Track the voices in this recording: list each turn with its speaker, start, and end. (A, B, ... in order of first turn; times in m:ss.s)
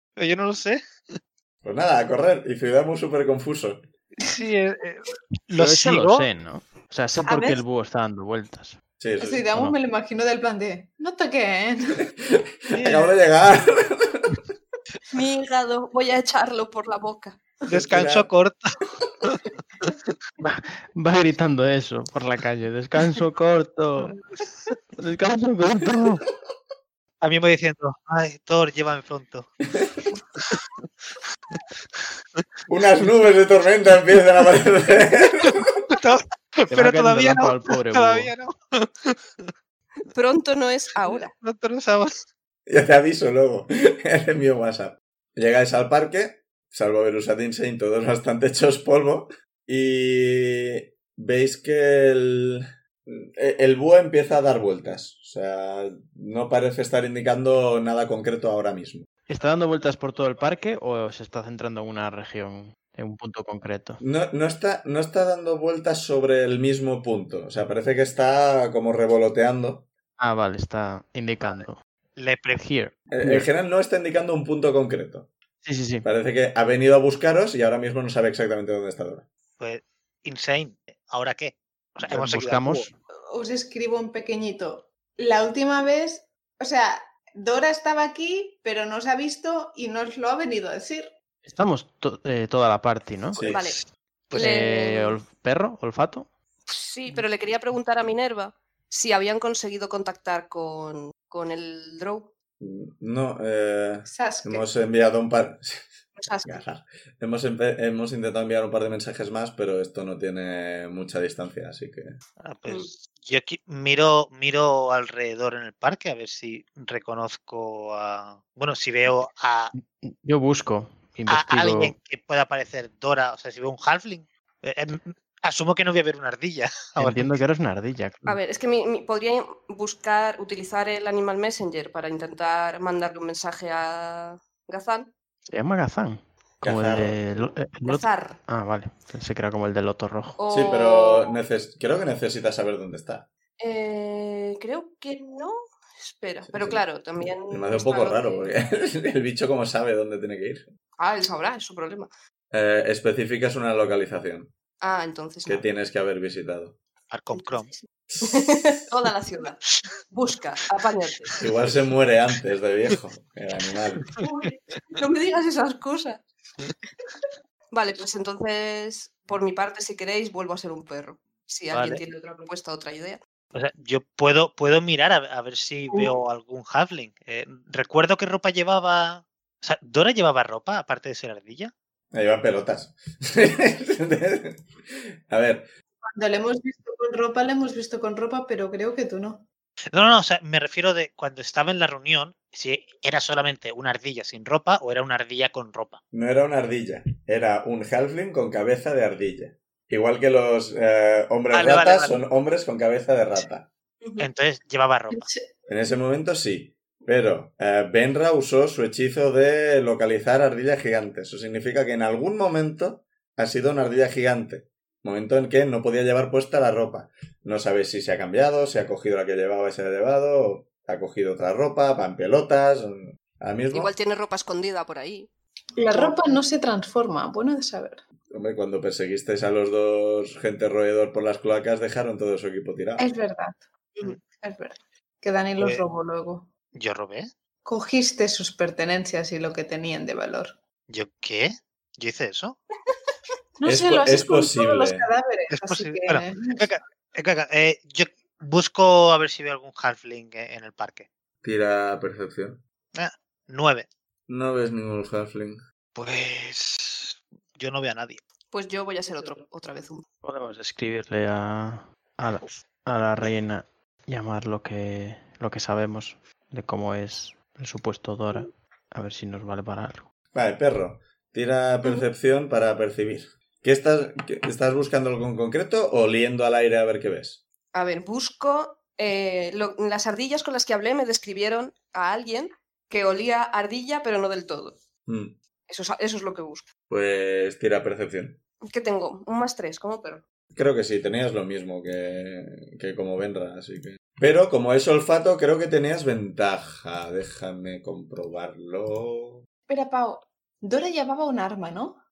0:00.2-0:00.8 A
0:01.6-0:03.8 B
0:04.2-0:06.3 A
0:05.6-0:08.8 C
0:07.3-0:07.6 D
0:09.0-0:09.4 B
0:09.2-0:12.0 E
0:09.5-0:09.8 C
0:12.7-0:14.4 B
0:12.7-0:13.1 A
0:15.1-0:17.4 D
0:17.7-0:20.0 A
0:17.7-0:18.3 B
0:20.4-0:24.1 C
0:24.0-0:24.4 A
0:25.0-0:26.2 C
0:27.2-0:29.6 A
0:30.4-0:30.6 A
0:31.5-0:32.4 A
0:32.7-0:35.7 B
0:35.5-0:39.5 A
0:36.7-0:38.3 C
0:40.1-0:41.3 D
0:41.0-0:42.2 A
0:42.7-0:59.1 B
0:59.3-1:04.0 C
1:04.0-1:09.9 B
1:10.2-1:11.8 C
1:12.2-1:12.6 A
1:12.6-1:13.5 C
1:13.1-1:15.3 B
1:15.6-1:16.1 C
1:16.0-1:19.3 B
1:19.6-1:22.9 A
1:22.1-1:22.9 C
1:23.3-1:31.1 E
1:31.4-1:33.4 C
1:33.4-1:33.7 B
1:33.4-1:34.5 A
1:33.5-1:33.8 D
1:34.3-1:35.2 D
1:34.3-1:36.3 C
1:36.7-1:42.3 D
1:42.6-1:52.2 B
1:44.1-1:44.7 E
1:46.2-1:46.6 D
1:52.4-1:59.7 A
2:00.0-2:01.9 C
2:01.3-2:07.4 A
2:07.0-2:08.4 C
2:08.3-2:15.1 D
2:15.5-2:20.4 C
2:16.6-2:17.2 B
2:17.9-2:18.4 D
2:20.4-2:21.4 D
2:20.5-2:23.3 B
2:23.6-2:28.5 D
2:26.5-2:26.8 B
2:27.5-2:30.6 B
2:31.0-2:32.1 D
2:32.5-2:34.5 B
2:34.8-2:35.6 D
2:35.4-2:36.8 B
2:37.1-2:37.7 A
2:37.3-2:37.6 D
2:38.1-2:38.8 B
2:38.2-2:39.6 D
2:40.1-2:41.3 D
2:41.4-2:44.0 B
2:44.0-2:45.0 A
2:44.2-2:46.2 D
2:47.7-2:53.2 D
2:51.7-2:52.0 A
2:53.5-3:01.7 A
3:02.1-3:05.7 B
3:06.0-3:09.4 E
3:09.9-3:16.0 A
3:16.1-3:23.7 B
3:21.5-3:22.2 A
3:24.2-3:25.3 A
3:25.1-3:25.4 E
3:25.7-3:43.9 B
3:43.7-3:45.3 D
3:45.8-3:48.0 E
3:45.9-3:46.3 D
3:48.3-3:53.1 B
3:53.0-3:53.7 E
3:54.3-3:56.5 E
3:55.6-3:55.8 A
3:56.8-3:57.3 A
3:57.6-4:00.6 E
4:00.9-4:02.6 A
4:03.6-4:06.7 E
4:03.6-4:05.1 B
4:05.5-4:11.1 A
4:11.4-4:12.6 B
4:12.9-4:13.9 A
4:14.3-4:15.6 B
4:15.9-4:18.2 A
4:18.5-4:20.1 D
4:20.2-4:30.0 C
4:30.3-4:37.4 B
4:37.7-4:44.8 D
4:45.1-4:45.4 B
4:45.7-4:46.7 D
4:46.9-4:48.4 B
4:48.6-4:50.2 D
4:50.5-4:59.4 B
4:59.7-5:02.0 E